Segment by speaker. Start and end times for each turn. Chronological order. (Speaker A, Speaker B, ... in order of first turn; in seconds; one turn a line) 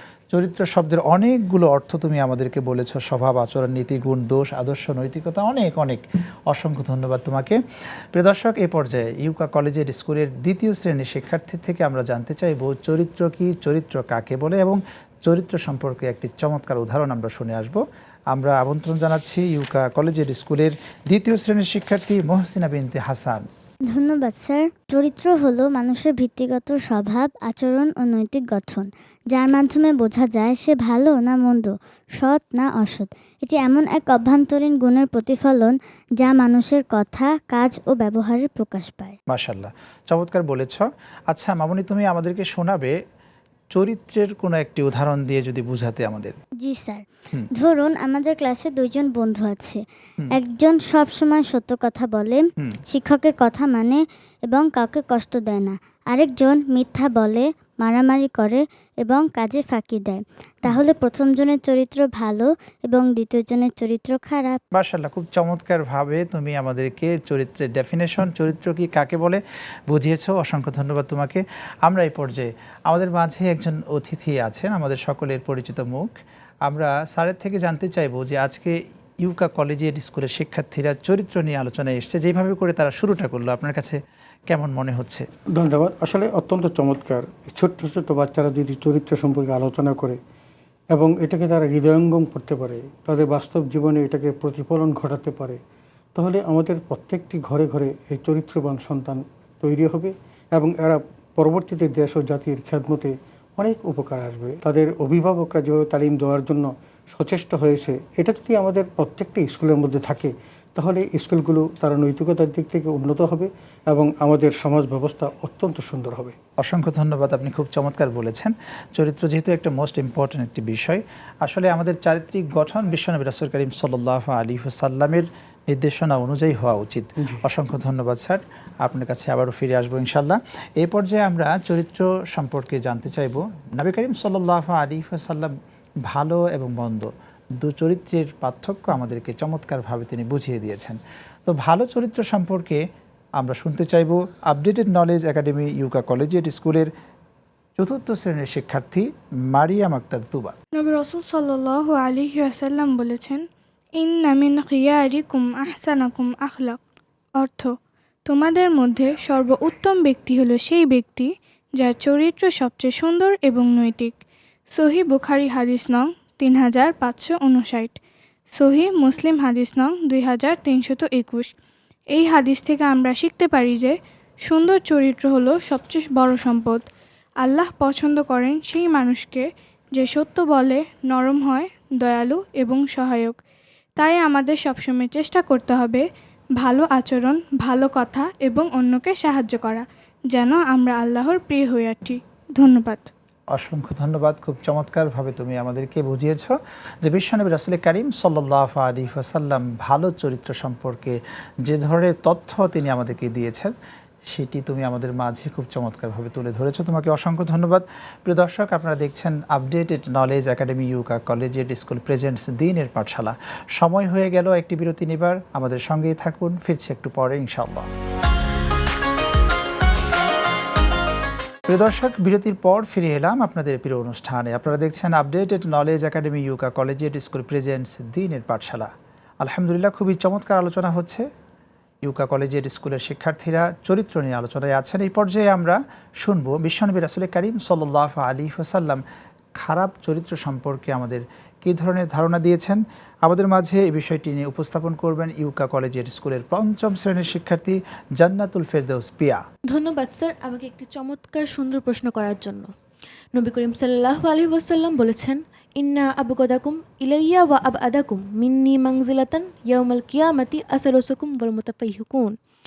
Speaker A: 0.3-7.6
Speaker A: 8.1-23.4
Speaker B: 23.9-39.2
Speaker A: 39.3-42.9
Speaker A: 43.7-46.4
Speaker B: 46.6-47.0
Speaker B: 47.6-49.8
Speaker B: 50.4-64.6
Speaker A: 64.7-76.1
Speaker A: 76.7-84.0
Speaker A: 84.5-85.2
Speaker C: 85.6-90.2
Speaker C: 90.9-95.6
Speaker C: 96.1-116.3
Speaker A: 116.6-135.5
Speaker A: 136.1-142.8
Speaker A: 143.4-146.9
Speaker A: 147.8-150.6
Speaker D: 150.8-153.4
Speaker D: 154.0-156.8
Speaker D: 157.4-157.7
Speaker D: 158.3-164.2
Speaker D: 164.7-168.0
Speaker D: 168.6-171.5
Speaker D: 172.1-176.8
Speaker D: 177.4-183.4
Speaker D: 184.0-186.1
Speaker D: 186.6-193.1
Speaker A: 193.5-203.7
Speaker A: 204.3-217.9
Speaker A: 221.7-228.9
Speaker A: 229.4-231.2
Speaker A: 232.1-239.0
Speaker A: 239.6-249.4
Speaker E: 249.7-252.7
Speaker E: 253.3-262.4